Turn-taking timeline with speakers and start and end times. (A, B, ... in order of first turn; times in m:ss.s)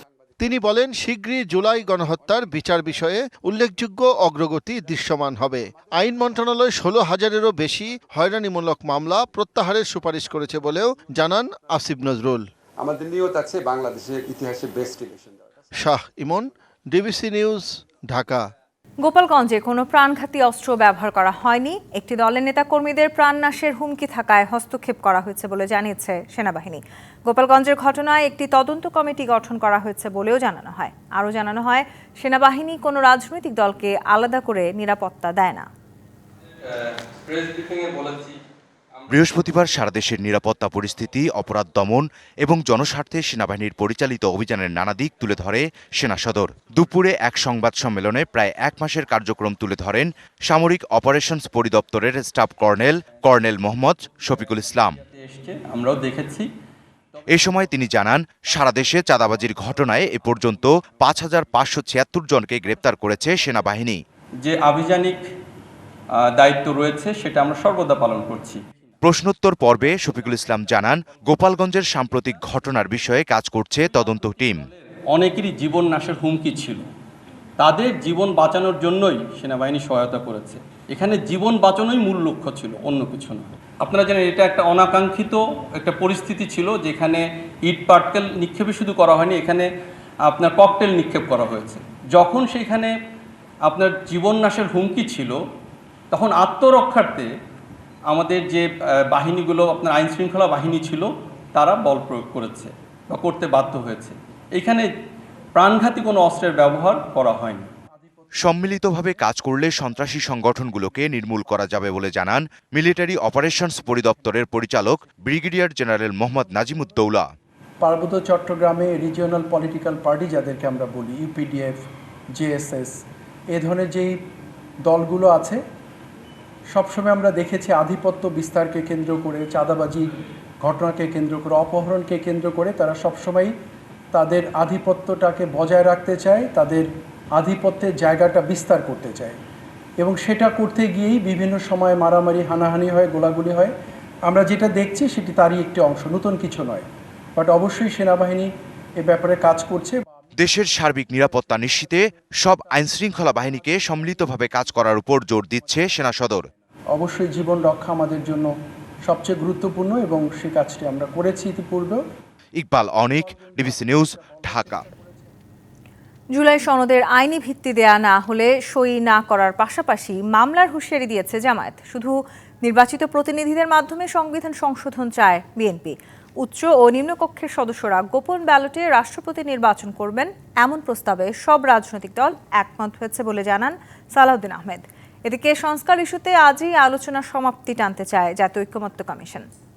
0:00.4-0:12.4 A
0:12.8-0:15.3 B
0:15.8-0:18.4 A
0:19.0-0:35.7 C
0:39.1-0:55.0 D
0:55.1-0:56.5 E
0:57.3-1:04.0 D
1:04.4-1:05.2 E
1:06.4-1:08.6 E
1:09.0-1:14.6 D
1:15.2-1:16.8 E
1:17.6-1:29.7 E
1:30.3-1:32.9 E
1:33.7-1:35.4 E
1:36.1-1:37.3 E
1:38.1-1:44.8 E
1:45.6-1:47.7 E
1:48.4-1:57.3 D
1:57.8-2:01.8 F
2:02.4-2:02.9 F
2:03.5-2:04.1 F
2:04.9-2:05.6 F
2:06.7-2:10.0 F
2:10.6-2:13.5 F
2:14.1-2:19.4 F
2:20.0-2:23.7 F
2:24.3-2:26.8 F
2:27.4-2:28.5 F
2:29.0-2:30.0 F
2:30.4-2:36.5 D
2:36.9-2:38.5 F
2:39.0-2:42.0 F
2:42.6-2:44.8 D
2:44.2-2:44.9 F
2:46.3-3:09.5 C